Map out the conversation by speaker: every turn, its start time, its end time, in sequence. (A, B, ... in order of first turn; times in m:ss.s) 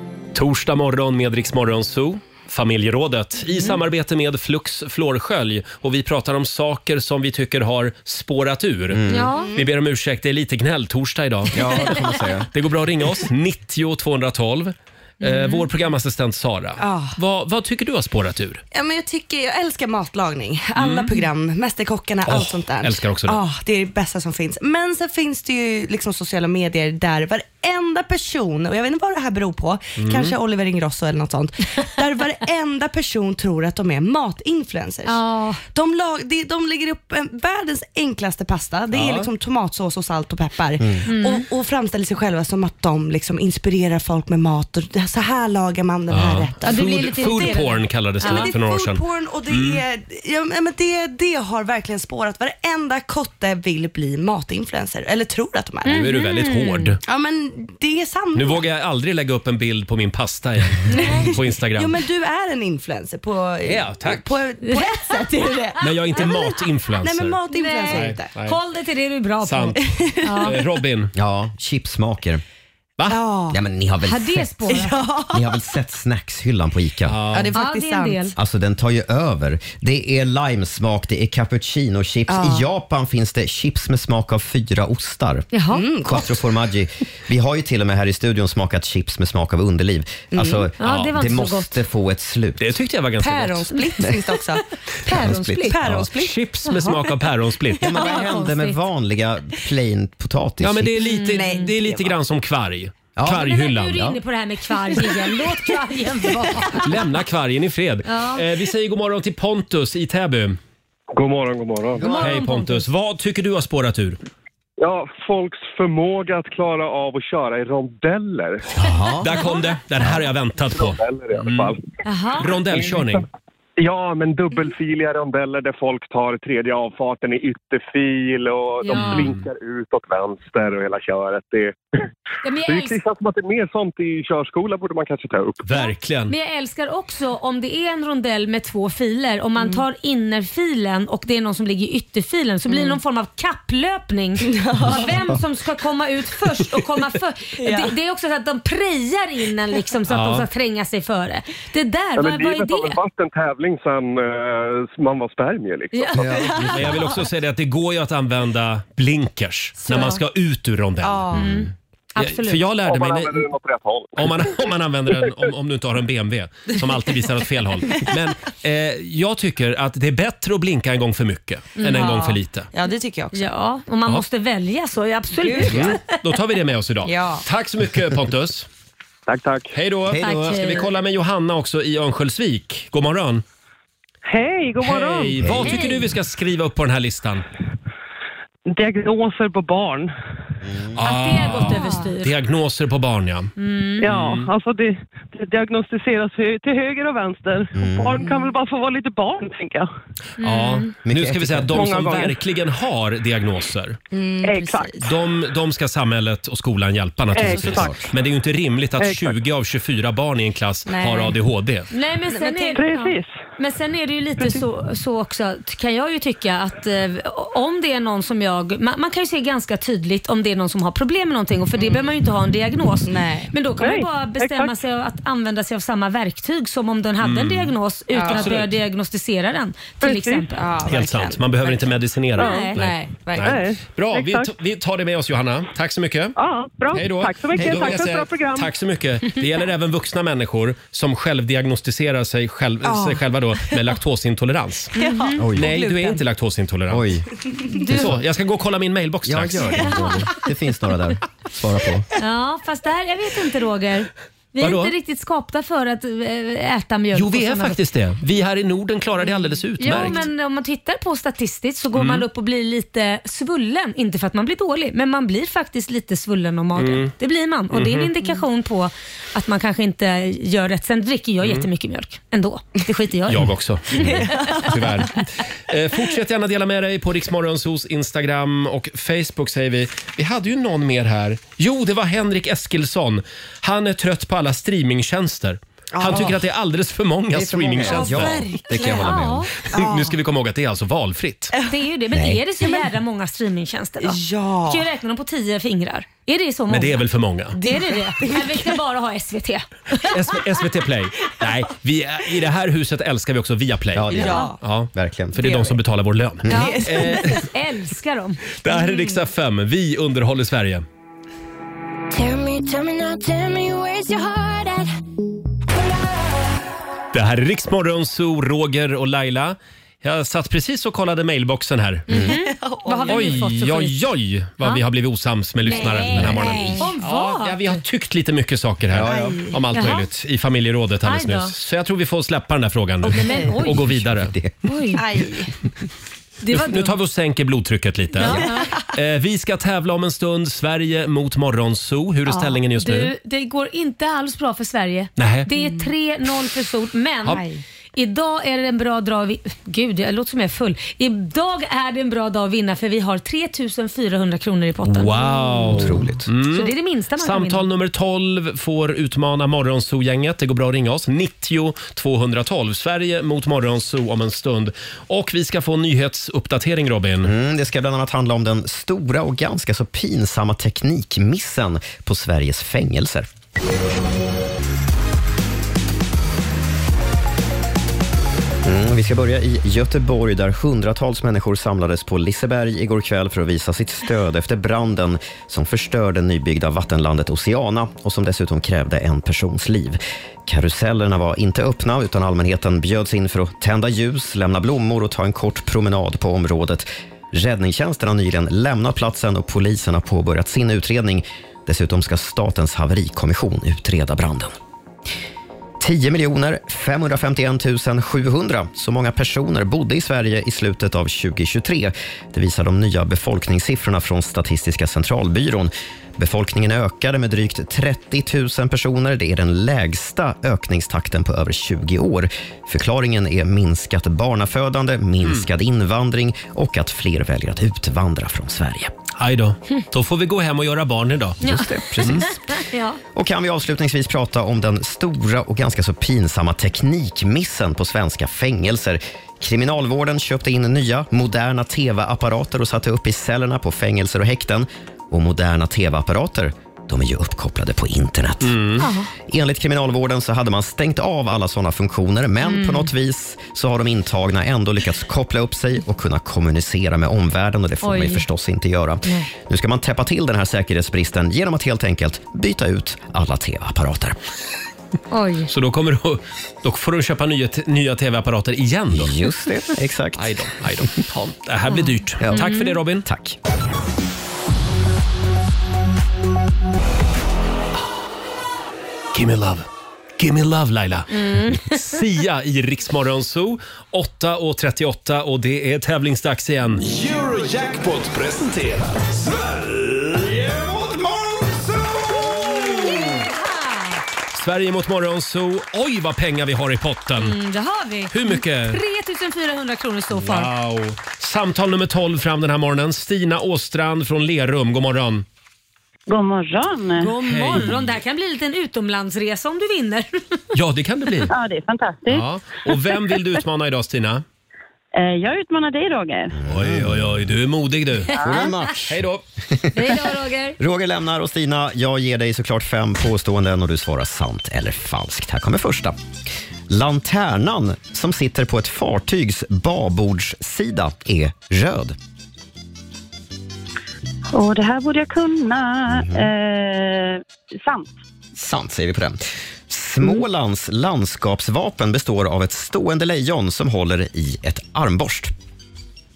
0:00.3-0:09.0 A
0:08.9-0:09.3 B
0:09.1-0:09.5 C
0:09.3-0:09.6 D
0:09.5-0:12.0 A
0:11.5-0:12.5 B
0:12.5-0:18.6 A
0:15.2-0:15.5 C
0:16.8-0:17.1 D
0:18.7-0:56.1 D
0:20.8-0:21.2 A
0:22.2-0:23.4 A
0:30.0-0:30.4 A
0:35.0-0:35.6 C
0:38.9-0:39.3 A
0:41.1-0:41.4 C
0:46.1-0:49.8 A
0:46.6-0:48.5 C
0:55.8-0:56.9 C
0:55.9-0:57.0 A
0:57.0-0:58.6 D
0:58.3-1:01.9 A
1:00.9-1:01.3 C
1:00.9-1:08.3 D
1:03.6-1:04.3 A
1:04.7-1:05.3 C
1:05.8-1:08.6 A
1:07.5-1:10.5 C
1:09.4-1:11.1 A
1:09.8-1:10.6 D
1:11.1-1:12.4 B
1:13.1-1:13.6 D
1:13.5-1:14.7 B
1:14.0-1:14.9 C
1:14.7-1:15.6 D
1:15.3-1:17.2 B
1:17.1-1:17.5 A
1:17.3-1:18.3 D
1:17.5-1:18.3 C
1:18.4-1:25.5 B
1:22.3-1:22.6 D
1:25.5-1:25.8 C
1:25.7-1:26.3 D
1:26.0-1:32.6 B
1:30.3-1:30.7 D
1:30.8-1:31.8 C
1:30.8-1:31.1 A
1:32.6-1:33.7 A
1:33.2-1:34.6 D
1:35.0-1:35.8 C
1:35.1-1:35.8 B
1:35.6-1:36.3 D
1:35.8-1:37.9 A
1:36.6-1:37.0 C
1:37.8-1:38.3 D
1:37.8-1:40.9 B
1:38.0-1:38.8 C
1:40.6-1:44.0 A
1:41.1-1:41.7 C
1:41.1-1:42.1 D
1:43.2-1:44.2 B
1:43.3-1:46.9 C
1:46.8-1:50.6 A
1:48.0-1:48.4 C
1:51.1-1:52.1 E
1:52.0-1:52.9 C
1:52.1-1:54.2 A
1:54.8-1:58.7 E
1:58.8-1:59.3 B
1:59.2-2:01.7 A
2:00.6-2:01.8 E
2:02.0-2:02.5 C
2:02.4-2:03.2 A
2:03.8-2:11.8 E
2:08.9-2:09.2 C
2:08.9-2:09.4 A
2:12.4-2:13.0 C
2:12.6-2:15.7 E
2:15.6-2:16.3 A
2:16.3-2:33.0 C
2:19.6-2:19.8 D
2:22.7-2:23.0 D
2:24.4-2:25.2 D
2:27.6-2:27.9 D
2:30.1-2:30.4 A
2:32.2-2:36.2 E
2:36.1-2:36.9 B
2:36.2-2:37.2 D
2:36.6-2:41.3 A
2:39.9-2:40.2 D
2:41.0-2:41.6 D
2:41.3-2:42.6 C
2:42.2-2:43.4 A
2:42.8-2:44.6 E
2:44.2-2:52.7 A
2:51.8-2:52.2 C
2:51.8-2:53.4 D
2:53.3-2:56.0 C
2:55.3-2:55.8 D
2:55.6-2:58.7 A
2:57.0-2:57.4 D
2:59.3-2:59.7 E
2:59.7-3:03.4 A
3:00.2-3:00.9 C
3:04.2-3:05.4 F
3:04.8-3:07.4 A
3:05.4-3:05.8 B
3:05.6-3:06.1 C
3:08.7-3:10.1 F
3:10.6-3:11.0 B
3:10.9-3:13.5 A
3:11.0-3:12.3 C
3:13.6-3:14.1 C
3:14.0-3:19.9 F
3:14.0-3:14.5 A
3:17.7-3:18.2 B
3:18.1-3:18.5 D
3:20.4-3:24.0 A
3:20.4-3:20.9 C
3:21.0-3:22.1 B
3:21.7-3:22.3 F
3:24.1-3:25.0 D
3:24.4-3:24.9 F
3:25.0-3:31.9 A
3:27.3-3:27.9 F
3:27.5-3:28.0 B
3:29.0-3:29.4 F
3:30.8-3:31.4 D
3:31.9-3:50.6 C
3:32.3-3:32.8 D
3:32.8-3:33.3 F
3:41.7-3:42.1 D
3:43.0-3:43.5 D
3:43.8-3:44.7 F
3:47.2-3:47.7 A
3:48.1-3:48.6 D
3:48.3-3:48.7 A
3:50.0-3:50.4 F
3:50.5-3:53.6 D
3:50.8-3:56.3 A
3:52.4-3:52.8 C
3:53.4-3:54.5 F
3:56.4-3:58.7 F
3:56.9-4:04.9 A
3:57.6-3:58.0 B
4:02.8-4:03.9 D
4:04.9-4:06.2 D
4:05.0-4:05.4 C
4:05.4-4:05.7 B
4:05.6-4:07.2 A
4:06.9-4:07.3 B
4:07.5-4:07.9 D
4:07.8-4:08.1 C
4:07.9-4:09.7 A
4:09.2-4:12.1 B
4:09.8-4:10.3 C
4:12.2-4:17.8 C
4:14.6-4:14.9 A
4:17.1-4:20.2 A
4:19.8-4:34.2 C
4:22.0-4:22.2 A
4:26.8-4:27.1 A
4:27.7-4:28.1 A
4:33.3-4:48.4 A
4:33.9-4:34.9 D
4:45.9-4:46.4 D
4:47.3-4:49.4 B
4:47.9-4:49.5 C
4:48.1-4:49.1 D
4:49.7-4:50.1 D
4:49.7-4:51.5 A
4:51.7-4:57.0 C
4:52.1-4:52.4 B
4:54.0-4:54.8 D
4:56.7-4:57.6 A
4:57.6-4:58.8 D
4:57.6-4:59.7 C
5:00.0-5:07.4 A
5:03.9-5:05.5 B
5:04.1-5:04.6 D
5:05.4-5:05.8 D
5:06.4-5:07.4 D
5:06.5-5:08.5 C
5:08.6-5:10.8 A
5:08.7-5:09.2 D
5:12.2-5:14.8 G
5:17.1-5:22.1 A
5:22.1-5:24.0 C
5:22.1-5:22.4 B
5:22.2-5:23.4 D
5:23.1-5:34.3 A
5:25.7-5:26.8 D
5:25.7-5:27.7 C
5:28.9-5:29.3 B
5:29.0-5:29.9 D
5:29.7-5:30.1 C
5:31.0-5:31.5 C
5:33.0-5:33.8 C
5:33.1-5:33.5 D
5:33.7-5:34.5 B
5:34.6-5:35.0 C
5:34.9-5:35.5 D
5:36.4-5:37.0 C
5:36.5-5:43.1 A
5:38.2-5:38.9 D
5:38.2-5:38.7 C
5:42.8-5:47.4 C
5:45.2-5:45.5 A
5:45.6-5:45.9 D
5:47.3-5:47.6 D
5:48.0-5:55.9 C
5:54.8-6:07.3 A
5:55.7-5:56.2 B
5:56.5-5:57.6 C
6:07.2-6:13.3 B
6:18.6-6:44.5 B
6:45.8-7:08.9 B
7:09.2-7:12.3 A
7:11.4-7:12.6 B
7:11.4-7:13.0 C
7:13.1-7:44.2 B
7:28.4-7:28.9 A
7:28.8-7:29.1 C
7:32.4-7:32.9 C
7:37.8-7:38.2 C
7:45.1-7:45.5 C
7:45.5-7:49.1 A
7:48.9-7:50.9 B
7:50.2-7:53.0 A
7:51.7-7:52.8 C
7:53.0-7:53.4 B
7:59.1-7:59.7 A
8:00.2-8:06.8 A
8:01.1-8:02.0 C
8:06.8-8:13.2 H
8:12.3-8:13.0 A
8:12.8-8:14.0 C
8:14.3-8:17.3 A
8:17.2-8:20.5 C
8:18.1-8:18.8 A
8:20.1-8:25.2 A
8:26.1-8:27.1 I
8:27.0-8:30.4 C
8:27.2-8:28.0 A
8:30.5-8:31.3 A
8:31.3-8:32.3 I
8:32.1-8:34.2 A
8:34.9-8:36.3 I
8:36.3-8:37.2 B
8:36.4-8:38.2 A
8:38.2-8:39.0 B
8:38.8-8:39.2 A
8:39.7-8:40.6 C
8:40.6-8:46.0 B
8:46.7-8:52.0 B
8:54.3-8:57.9 I
8:55.9-8:56.3 B
8:58.3-9:05.3 B